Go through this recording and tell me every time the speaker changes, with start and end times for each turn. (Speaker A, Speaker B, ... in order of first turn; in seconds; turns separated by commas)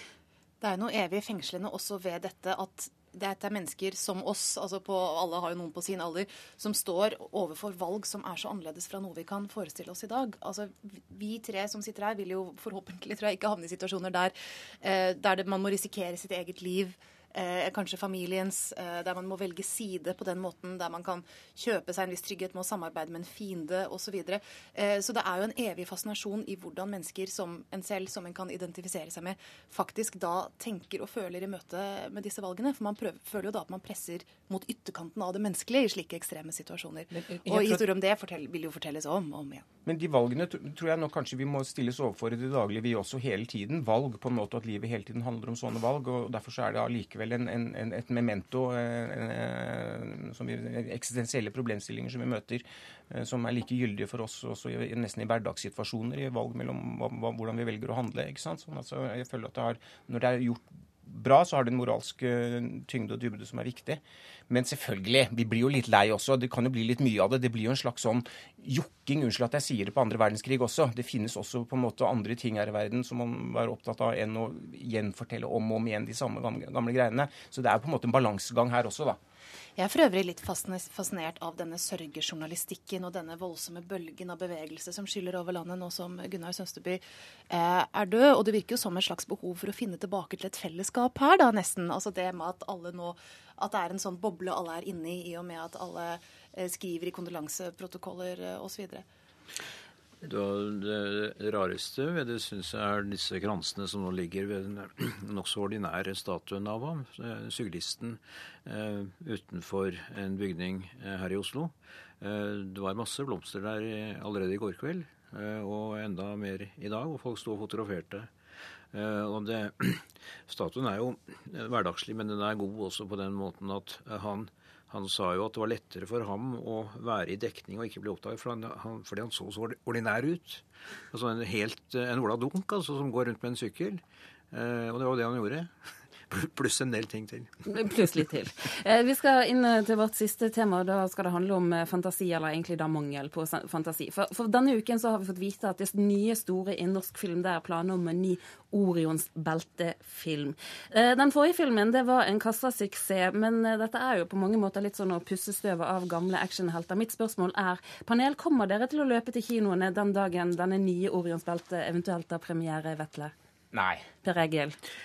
Speaker A: 0.6-39.6, Speaker B: 39.8-79.2, Speaker A: 79.8-99.0, Speaker C: 100.2-118.3, Speaker C: 118.9-135.7, Speaker C: 136.3-137.6, Speaker D: 137.7-163.3, Speaker B: 163.7-164.0, Speaker D: 164.2-164.8